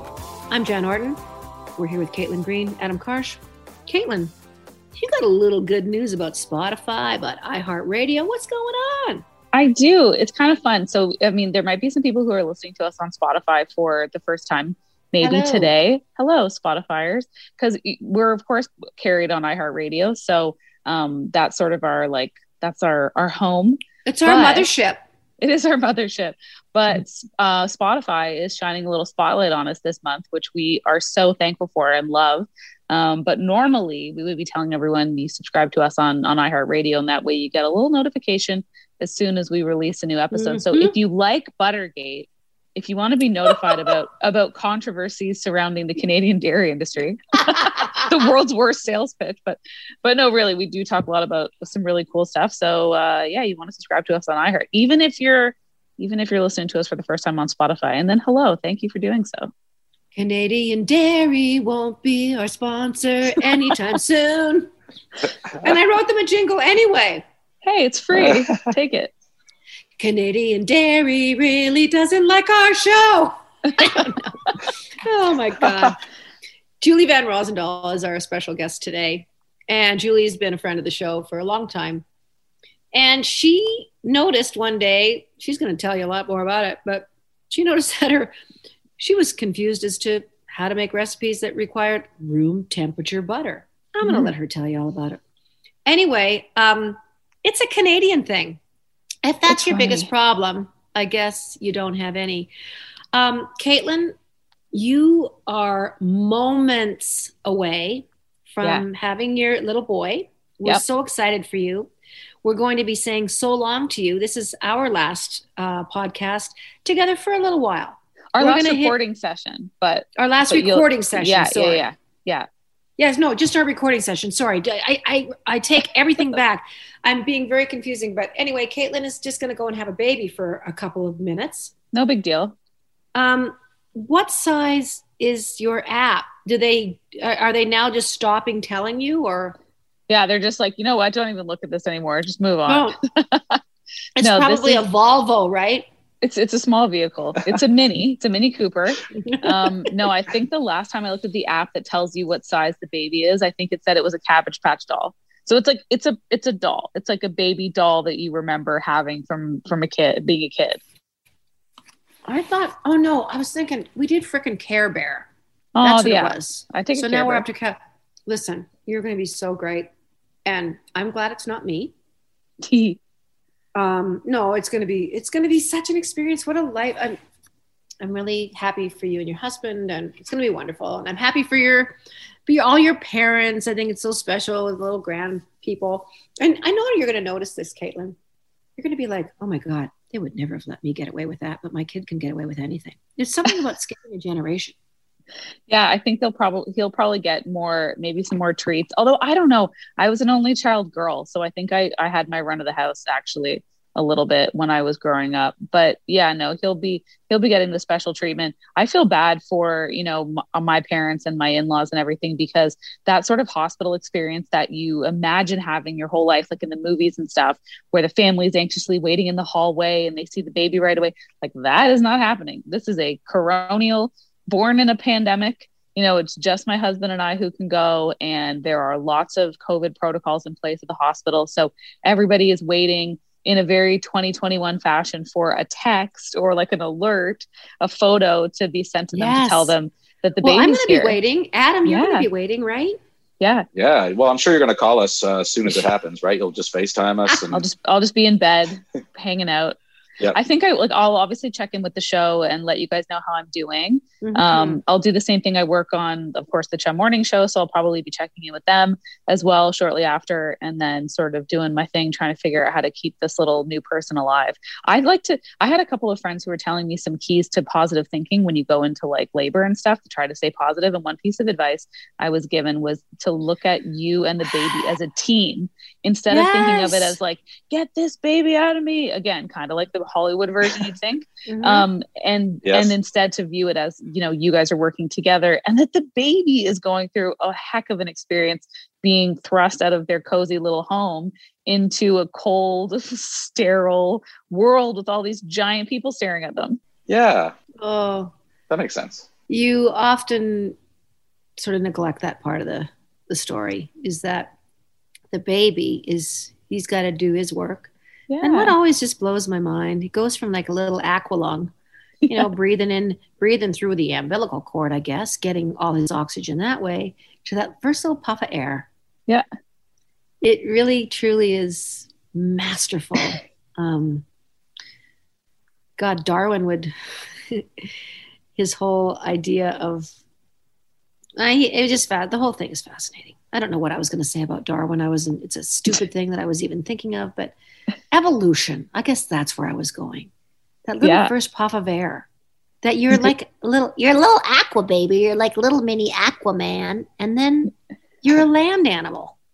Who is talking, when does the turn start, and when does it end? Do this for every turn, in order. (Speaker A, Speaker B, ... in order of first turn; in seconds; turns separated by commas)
Speaker A: 0.5-1.2, Speaker A: 1.8-4.3, Speaker A: 5.0-9.2, Speaker B: 9.5-24.7, Speaker A: 15.2-15.7, Speaker A: 24.1-25.0, Speaker B: 25.4-59.5, Speaker A: 40.3-41.0, Speaker A: 43.5-43.8, Speaker A: 47.7-48.3, Speaker A: 60.1-64.7, Speaker A: 65.5-67.2, Speaker B: 67.6-69.1, Speaker A: 70.0-76.0, Speaker A: 76.8-82.0, Speaker A: 82.9-88.4, Speaker A: 89.0-95.2, Speaker B: 94.0-94.3, Speaker A: 95.9-98.6, Speaker A: 99.2-102.5, Speaker B: 99.5-100.1, Speaker A: 103.1-104.2, Speaker A: 104.7-111.9, Speaker A: 112.4-119.0, Speaker B: 118.3-122.5, Speaker A: 120.2-121.9, Speaker A: 123.0-131.7, Speaker B: 131.9-132.6, Speaker A: 133.2-139.6, Speaker B: 140.1-143.6, Speaker A: 142.7-143.0, Speaker A: 144.2-145.9, Speaker B: 144.2-144.8, Speaker B: 146.2-160.8, Speaker A: 149.3-149.7, Speaker A: 162.2-165.3, Speaker B: 165.8-167.4, Speaker A: 165.8-169.9, Speaker A: 170.5-171.9, Speaker B: 172.6-173.0, Speaker A: 173.8-177.2, Speaker A: 178.0-188.2, Speaker A: 188.8-194.8, Speaker B: 195.7-241.2, Speaker A: 239.1-239.7, Speaker A: 240.4-243.0, Speaker B: 241.8-242.3, Speaker B: 243.4-243.7, Speaker C: 243.8-247.6, Speaker B: 247.5-249.8, Speaker B: 250.3-296.8, Speaker A: 254.2-254.8, Speaker A: 276.3-277.2, Speaker A: 281.4-281.9, Speaker C: 282.7-282.9, Speaker C: 297.1-297.6, Speaker A: 297.8-298.3, Speaker C: 298.7-299.2, Speaker A: 299.5-300.8, Speaker A: 301.6-304.5, Speaker A: 305.3-311.7, Speaker B: 308.3-308.8, Speaker A: 312.3-318.9, Speaker A: 320.4-324.2, Speaker A: 326.0-326.9, Speaker A: 328.6-330.1, Speaker A: 331.4-337.6, Speaker A: 338.1-340.3, Speaker A: 340.9-342.3, Speaker B: 341.0-341.3, Speaker A: 342.8-349.4